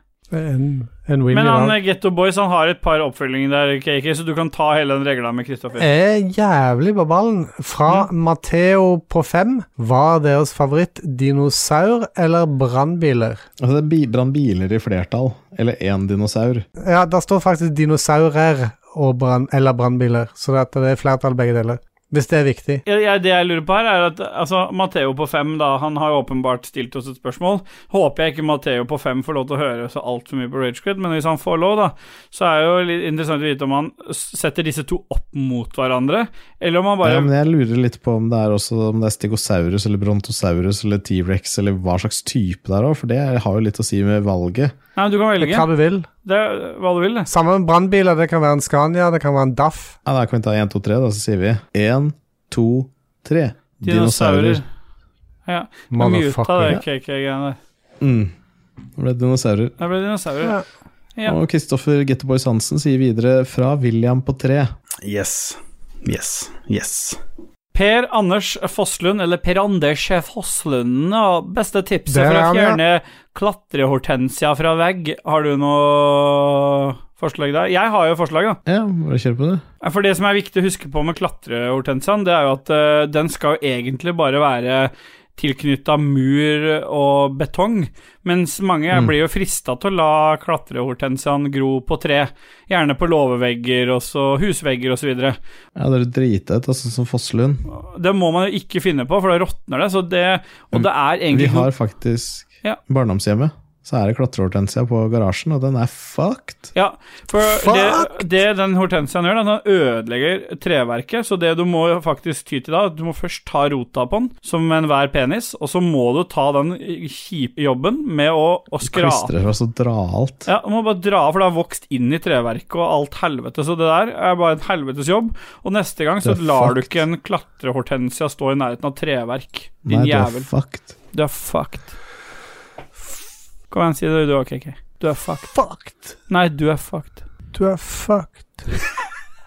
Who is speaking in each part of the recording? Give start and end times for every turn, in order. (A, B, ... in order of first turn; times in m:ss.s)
0:00.3-0:01.8 A
0:01.3-0:05.9 B
0:05.8-0:13.4 A
0:13.6-0:16.7 C
0:16.8-0:22.8 A
0:22.9-0:37.3 B
0:37.0-0:44.7 C
0:45.0-0:45.7 B
0:45.4-0:46.1 A
0:46.2-0:47.3 B
0:47.3-0:50.0 A
0:50.0-0:54.6 C
0:53.8-0:54.6 B
0:55.5-0:57.6 B
0:55.9-0:56.8 A
0:58.0-0:58.3 C
0:59.0-0:59.7 C
0:59.8-1:00.6 B
1:01.2-1:04.7 C
1:05.0-1:07.2 D
1:07.7-1:18.6 B
1:12.1-1:12.8 A
1:18.7-1:19.6 C
1:19.8-1:35.4 B
1:35.8-1:37.6 C
1:37.7-1:41.7 B
1:40.7-1:46.7 C
1:46.8-1:59.3 B
1:47.4-1:48.3 A
1:58.8-2:00.5 C
2:00.5-2:10.5 B
2:06.2-2:07.0 C
2:09.9-2:10.9 C
2:11.1-2:12.0 B
2:13.7-2:15.6 B
2:15.5-2:16.2 A
2:16.3-2:17.2 B
2:17.5-2:18.7 A